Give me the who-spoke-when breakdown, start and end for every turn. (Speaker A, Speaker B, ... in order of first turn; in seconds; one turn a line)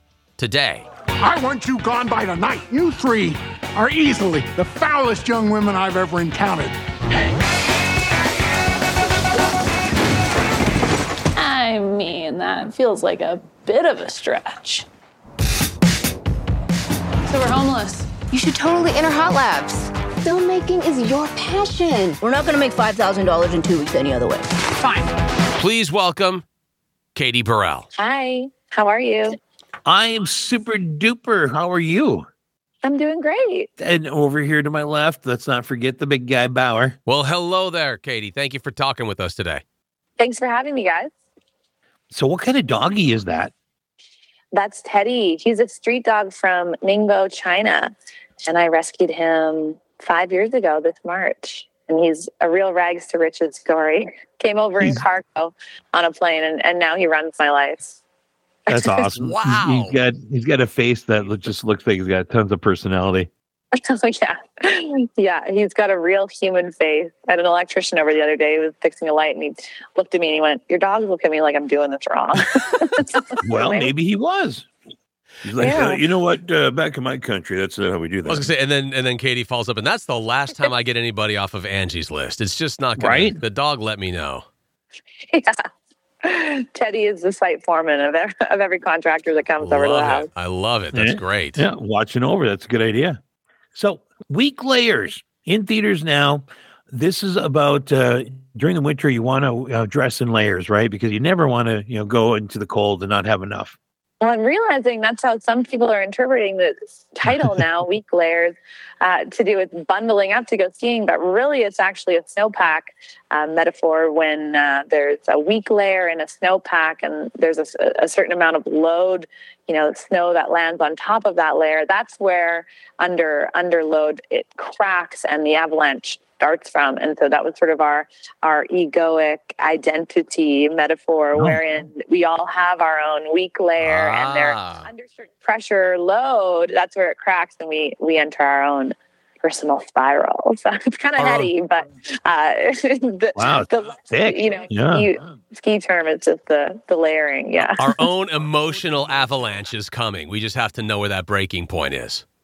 Speaker A: 0.4-0.8
Speaker B: 1.2-6.7
Speaker C: 11.3-14.8
Speaker C: 17.3-18.3
Speaker D: 18.3-22.1
Speaker E: 22.1-24.5
Speaker A: 25.6-26.4
Speaker A: 27.1-27.9
Speaker F: 27.9-29.4
Speaker G: 29.9-32.2
Speaker F: 32.8-33.7
Speaker G: 33.8-37.0
Speaker A: 37.1-39.6
Speaker F: 40.2-41.1
Speaker G: 42.1-43.5
Speaker F: 44.5-47.9
Speaker F: 48.4-58.0
Speaker F: 58.7-59.1
Speaker G: 58.7-63.3
Speaker A: 59.1-59.9
Speaker F: 63.9-73.9
Speaker G: 73.4-74.7
Speaker G: 75.4-78.5
Speaker F: 75.6-76.0
Speaker A: 78.3-84.4
Speaker G: 83.0-83.4
Speaker F: 85.3-85.6
Speaker F: 86.2-90.3
Speaker A: 89.6-91.6
Speaker G: 90.9-93.2
Speaker G: 93.7-103.7
Speaker F: 104.2-148.0
Speaker G: 131.3-131.6
Speaker A: 133.8-134.9
Speaker A: 141.2-141.5
Speaker G: 143.3-145.1
Speaker A: 147.8-152.2